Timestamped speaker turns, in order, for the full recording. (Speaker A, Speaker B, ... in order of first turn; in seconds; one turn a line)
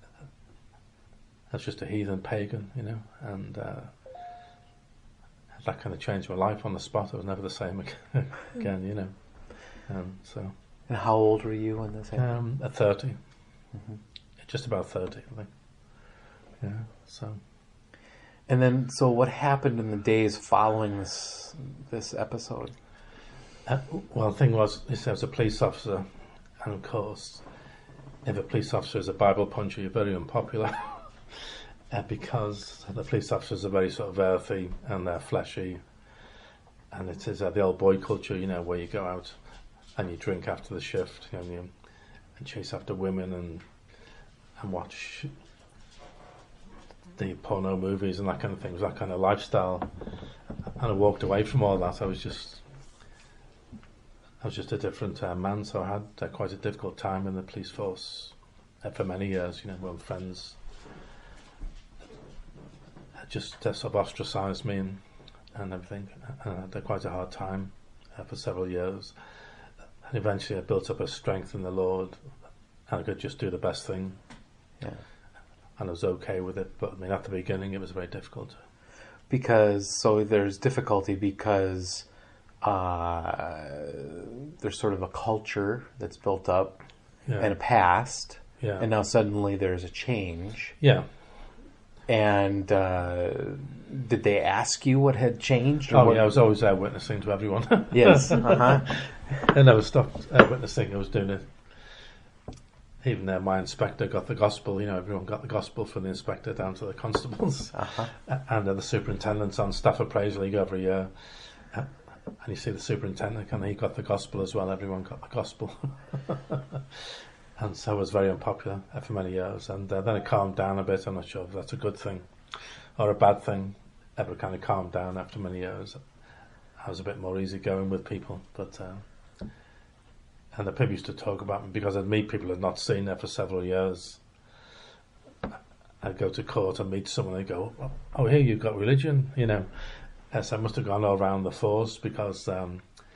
Speaker A: 1.5-3.9
Speaker A: 5.6-9.1
Speaker A: 9.9-10.5
Speaker B: 10.9-12.3
Speaker A: 12.2-13.2
Speaker A: 14.4-15.5
Speaker A: 16.6-17.4
Speaker B: 18.5-22.8
Speaker A: 23.7-26.1
Speaker A: 26.6-27.4
Speaker A: 28.2-31.1
Speaker A: 31.9-35.8
Speaker A: 36.9-39.4
Speaker A: 40.0-41.7
Speaker A: 42.4-43.6
Speaker A: 44.6-45.3
Speaker A: 47.2-49.9
Speaker A: 50.8-52.6
Speaker A: 54.4-60.6
Speaker A: 63.2-65.0
Speaker A: 65.5-69.2
Speaker A: 70.1-72.2
Speaker A: 72.9-74.2
Speaker A: 75.8-78.6
Speaker B: 79.3-82.1
Speaker B: 82.6-86.8
Speaker A: 87.3-87.6
Speaker B: 87.4-90.8
Speaker A: 88.6-88.9
Speaker B: 92.1-96.3
Speaker A: 95.9-101.5
Speaker B: 97.9-98.9
Speaker A: 103.0-111.1
Speaker B: 107.7-108.1
Speaker A: 112.4-117.0
Speaker A: 117.6-122.3
Speaker A: 123.0-126.0
Speaker A: 126.8-129.0
Speaker A: 130.5-134.2
Speaker A: 136.0-139.7
Speaker A: 140.3-142.8